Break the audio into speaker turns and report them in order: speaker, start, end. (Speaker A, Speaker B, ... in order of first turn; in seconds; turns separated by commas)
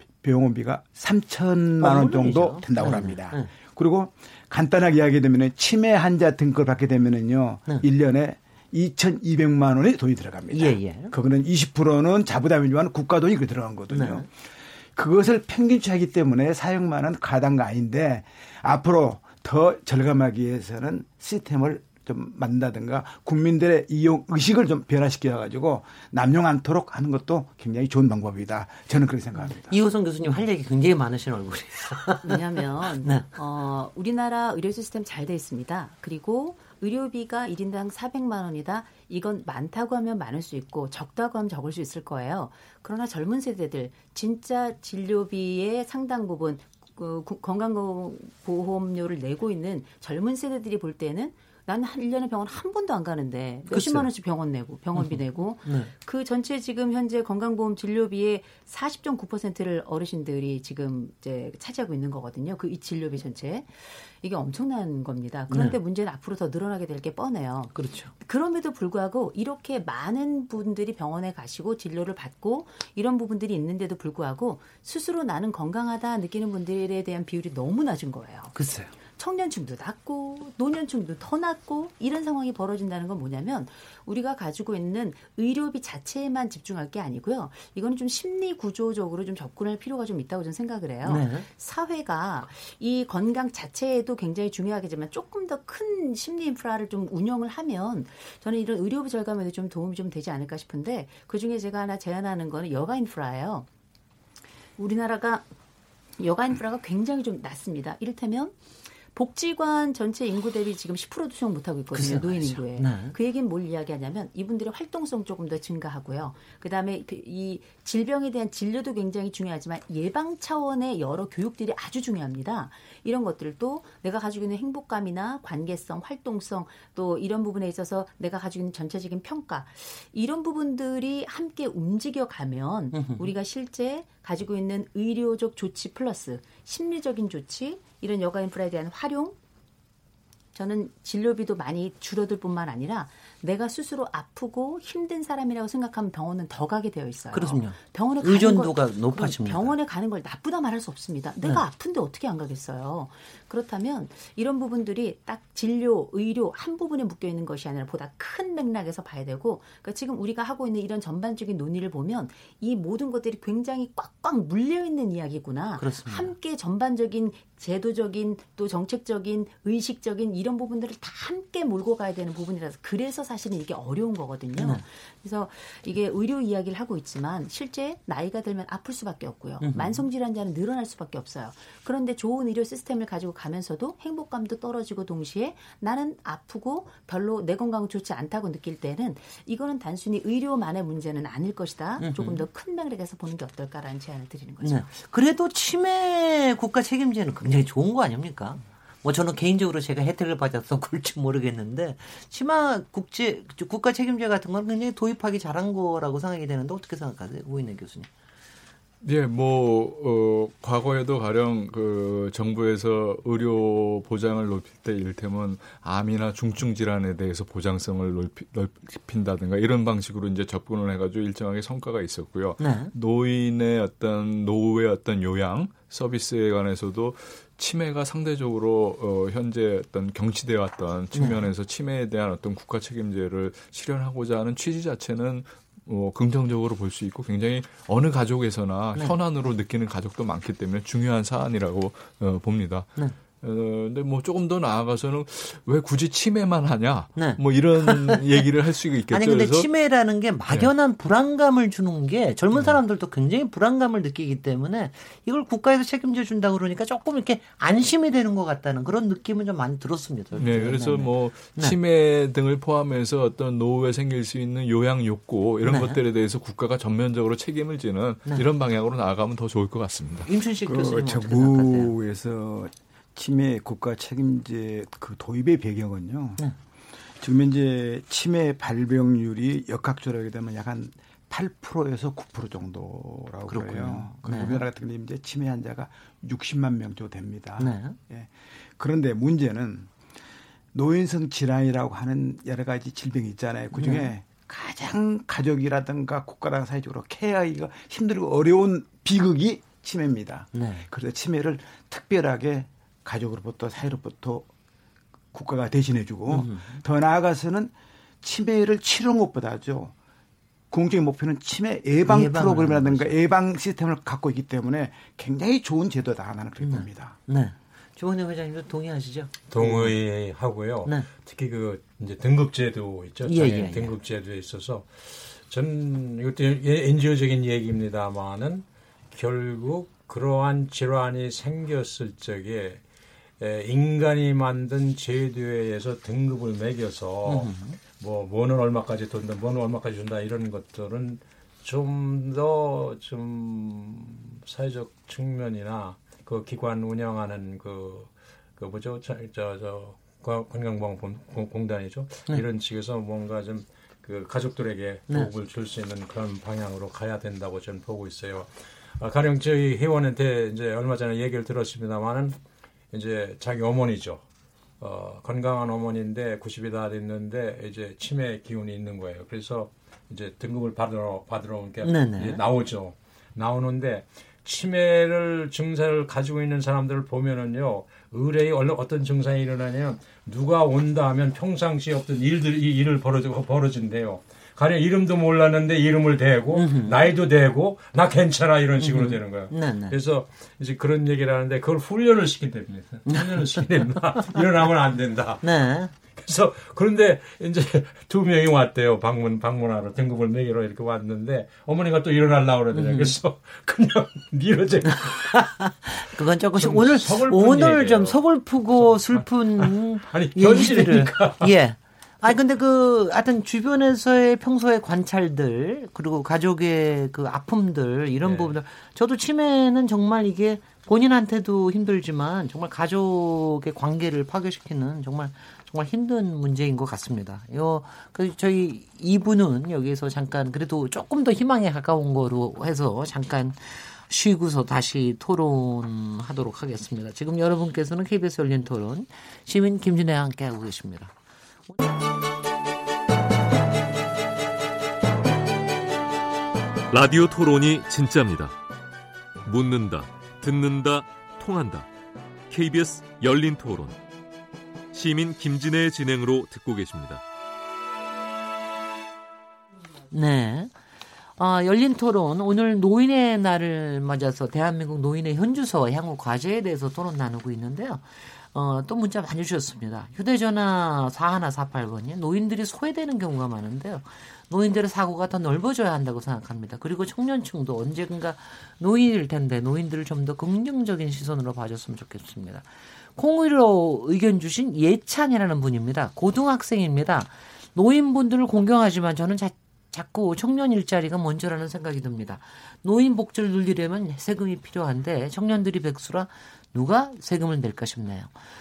Speaker A: 0.2-14.3, Speaker B: 1.8-3.5, Speaker B: 10.5-11.1, Speaker B: 13.9-14.2, Speaker A: 14.9-29.8, Speaker B: 29.4-32.4, Speaker C: 32.2-78.5, Speaker B: 33.0-33.3, Speaker B: 53.7-54.1, Speaker B: 55.0-55.9, Speaker B: 65.5-65.8, Speaker B: 67.7-68.1, Speaker B: 78.5-78.9, Speaker C: 79.2-103.7, Speaker B: 91.0-91.5, Speaker C: 104.8-105.5, Speaker C: 106.2-108.5, Speaker C: 109.1-139.3, Speaker B: 111.9-113.2, Speaker B: 132.9-133.3, Speaker C: 140.5-194.9, Speaker B: 147.3-149.7, Speaker B: 165.8-166.3, Speaker B: 174.6-174.8, Speaker B: 179.6-180.1, Speaker B: 192.0-192.4, Speaker B: 194.6-208.1, Speaker D: 209.0-242.9, Speaker B: 222.6-222.9, Speaker B: 231.1-231.5, Speaker D: 243.4-249.7, Speaker B: 247.1-248.4, Speaker B: 249.1-261.8, Speaker D: 260.4-270.3, Speaker B: 265.6-266.0, Speaker B: 270.3-271.9, Speaker A: 270.7-276.4, Speaker A: 277.2-289.9, Speaker B: 283.5-284.6, Speaker B: 287.6-287.9, Speaker A: 290.7-304.5, Speaker B: 293.7-294.1, Speaker B: 300.5-300.9, Speaker A: 305.3-309.9, Speaker B: 306.3-306.8, Speaker A: 310.7-317.2, Speaker B: 312.1-313.1, Speaker B: 316.6-319.9, Speaker E: 319.5-332.8, Speaker B: 323.2-323.9, Speaker E: 333.4-362.4, Speaker B: 337.2-337.8, Speaker E: 362.9-364.2, Speaker E: 364.8-395.4, Speaker B: 371.8-372.4, Speaker B: 386.5-387.1, Speaker B: 388.8-390.0, Speaker B: 393.1-393.6, Speaker B: 395.4-395.9, Speaker E: 396.2-405.6, Speaker B: 402.7-403.1, Speaker B: 405.0-441.1, Speaker E: 406.6-408.2, Speaker E: 408.8-411.5, Speaker E: 418.2-418.6, Speaker F: 446.9-448.6, Speaker F: 449.4-451.9, Speaker F: 452.5-454.0, Speaker F: 454.9-457.2, Speaker B: 460.1-460.7, Speaker B: 461.4-498.3